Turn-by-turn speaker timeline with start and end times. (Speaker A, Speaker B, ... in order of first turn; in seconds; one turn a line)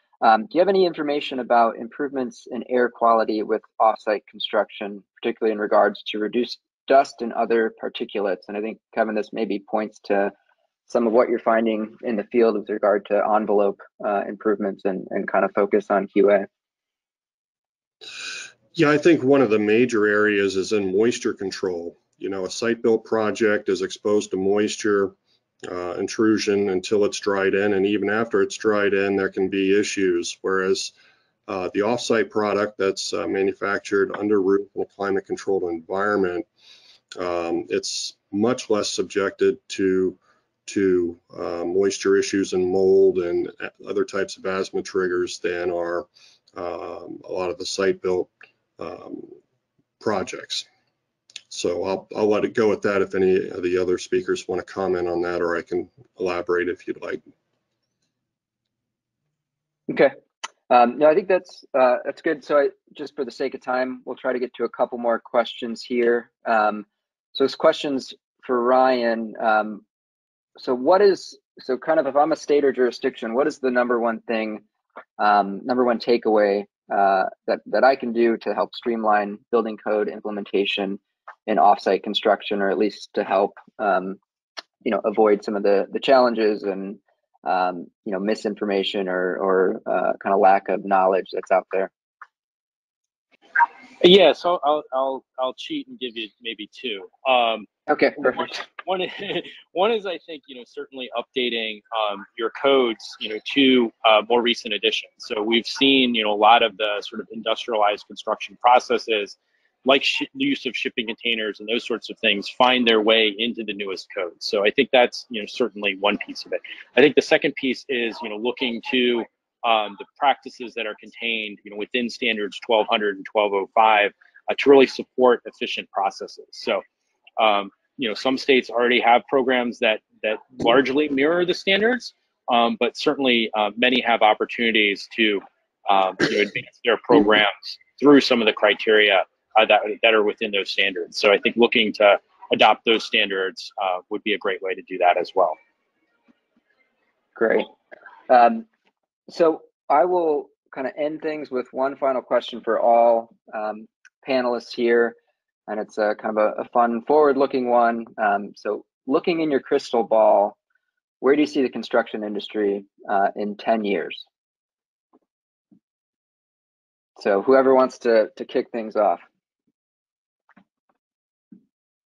Speaker A: 0.2-10.3
Speaker A: 10.9-16.5
Speaker B: 18.7-30.9
Speaker B: 31.5-36.5
Speaker B: 37.1-49.3
Speaker B: 50.0-50.7
Speaker B: 51.5-57.2
Speaker A: 59.9-60.1
Speaker A: 60.7-69.8
Speaker A: 70.6-74.6
Speaker A: 75.2-84.2
Speaker A: 84.8-91.9
Speaker C: 94.0-97.7
Speaker A: 97.9-98.6
Speaker C: 98.2-126.8
Speaker C: 127.4-145.6
Speaker A: 147.3-147.7
Speaker A: 148.3-148.7
Speaker A: 149.3-160.6
Speaker A: 161.2-164.2
Speaker A: 167.2-169.2